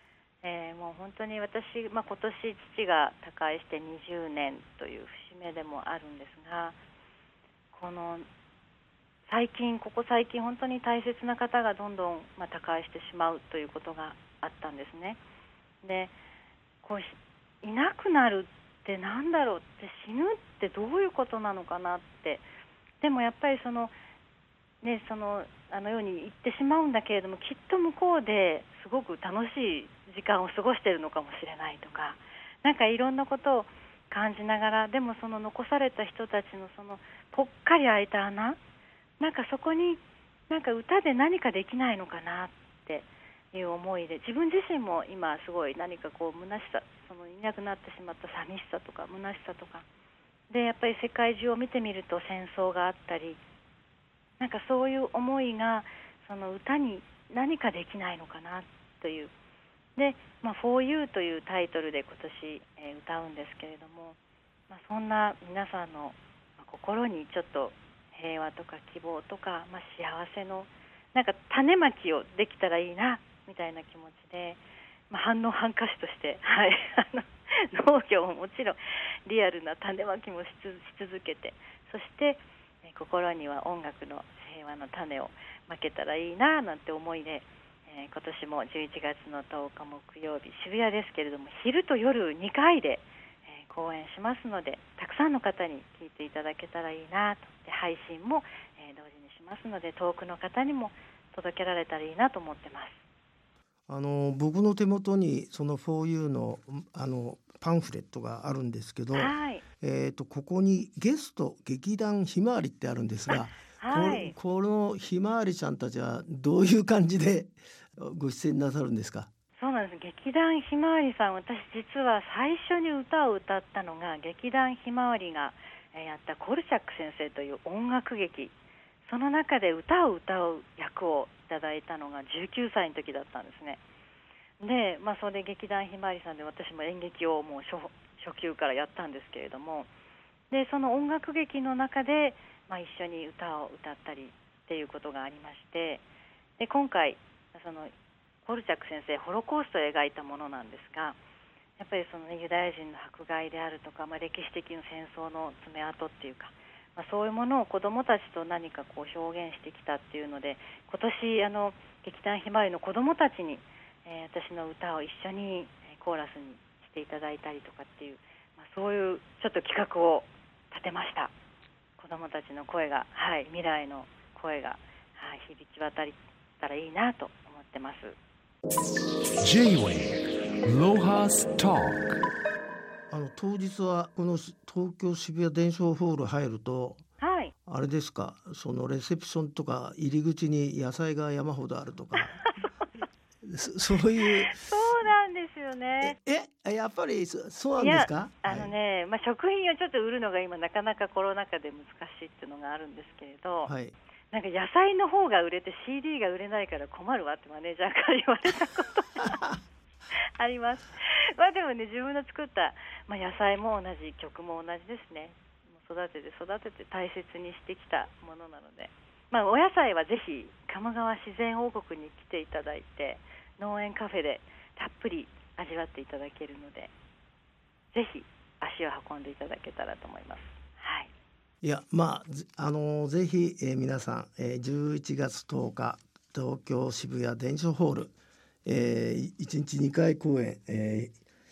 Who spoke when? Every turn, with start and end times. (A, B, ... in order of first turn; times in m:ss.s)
0:00.4-0:06.8 A
0:07.7-0:08.3 A
0:09.3-0:15.2 A
0:15.8-0:16.2 A
0:16.8-0:22.5 A
0:23.0-0:23.9 A
0:24.8-0:38.6 A
0:39.2-0:49.9 A
0:50.5-0:53.4 A
0:54.4-0:59.3 A
1:00.0-1:04.2 A
1:04.7-1:43.0 A
1:43.9-1:59.3 B
1:49.2-1:49.6 A
1:53.3-1:54.4 A
1:59.6-2:08.5 A
2:09.0-2:13.8 A
2:14.6-2:19.9 A
2:20.5-2:26.0 A
2:26.6-2:27.9 A
2:28.4-2:31.2 A
2:31.8-2:51.3 A
2:52.0-2:58.2 A
2:59.4-3:02.0 C
3:03.1-3:07.0 B
3:07.2-3:07.5 A
3:07.7-3:12.4 B
3:12.2-3:12.5 A
3:13.4-3:14.6 B
3:14.5-3:16.2 A
3:16.0-3:18.7 B
3:17.8-3:23.7 A
3:23.6-3:24.0 B
3:24.3-3:29.5 A
3:30.4-3:46.9 A
3:47.9-3:51.1 A
3:51.6-3:58.1 B
3:58.6-4:01.2 B